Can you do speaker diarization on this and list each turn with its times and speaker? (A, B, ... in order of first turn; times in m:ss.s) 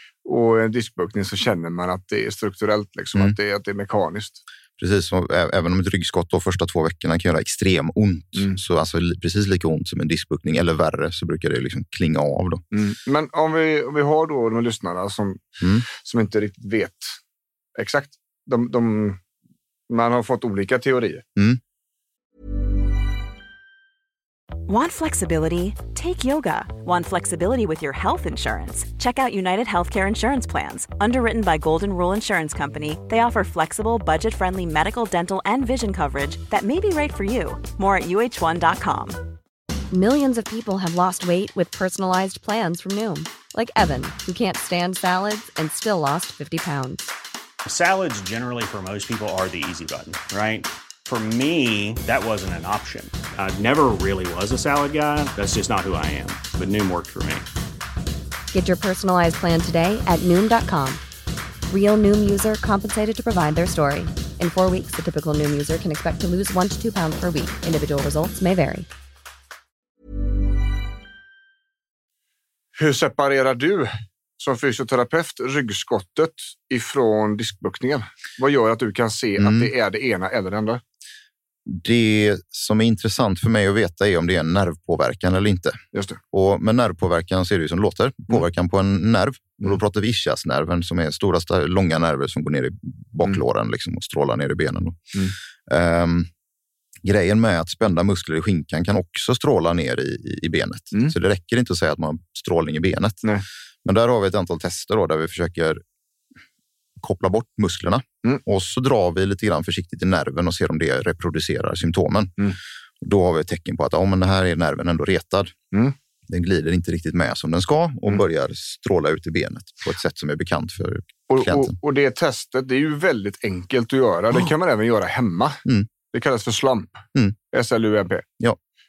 0:00.2-0:04.4 A
0:04.8-0:12.6 B
0:12.7-0:17.2 A
0:15.6-0:15.8 B
0:17.8-0:19.2 A
0:19.9-0:21.2 A
0:24.7-0:39.2 C
0:39.9-0:47.1 D
0:47.6-0:57.4 E
0:58.5-1:01.0 D
1:01.7-1:08.9 D
1:12.8-1:20.8 A
1:19.4-1:19.7 B
1:21.7-1:25.8 B
1:25.9-1:26.2 A
1:26.3-1:35.1 B
1:35.7-1:36.3 B
1:37.0-1:43.2 B
1:43.8-1:45.8 B
1:47.0-1:52.4 B
1:53.0-1:55.5 B
1:56.3-2:01.7 B
2:01.3-2:08.2 A